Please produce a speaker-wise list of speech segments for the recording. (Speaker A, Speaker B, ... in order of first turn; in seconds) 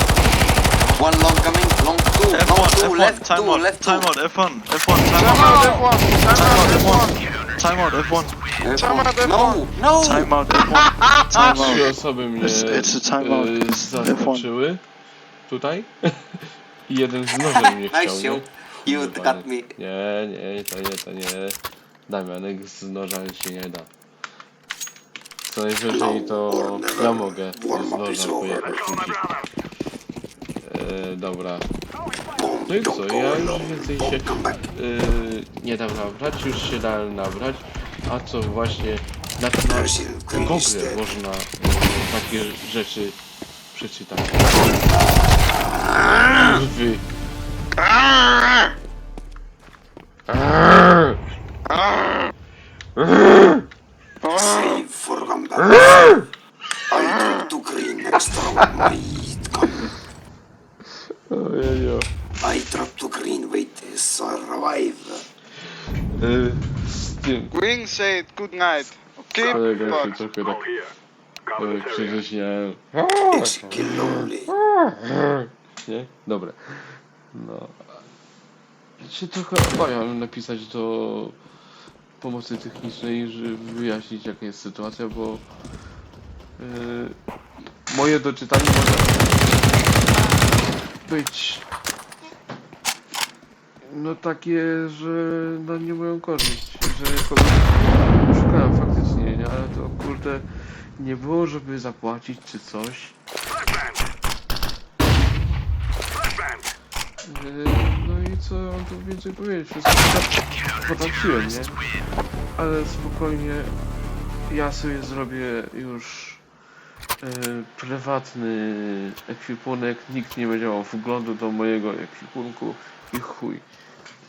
Speaker A: 0.9-4.1, 8.6-10.3, 17.6-19.7
Speaker B: 2.3-8.3, 10.0-14.4
Speaker C: 5.2-7.2, 8.8-9.7, 10.8-11.8, 47.8-48.5, 51.7-52.3, 54.2-54.8, 56.9-57.5, 67.5-70.1
Speaker D: 11.6-14.8, 15.5-23.9, 25.4-28.9, 30.6-31.7, 32.7-43.2, 43.7-44.6, 46.4-47.0, 50.3-51.1, 53.0-53.6, 55.7-56.2, 60.9-62.1, 66.1-67.5, 69.3-70.7, 71.5-78.0, 79.0-81.4, 82.2-85.5, 86.6-87.2, 87.8-89.6, 91.0-91.7, 93.8-103.2, 107.2-111.8, 112.5-113.8, 114.5-116.4, 117.2-123.6
Speaker E: 25.9-29.2, 32.3-34.6, 39.7-41.0, 44.5-46.6, 54.4-56.0, 56.9-59.9, 62.4-65.2, 73.3-74.5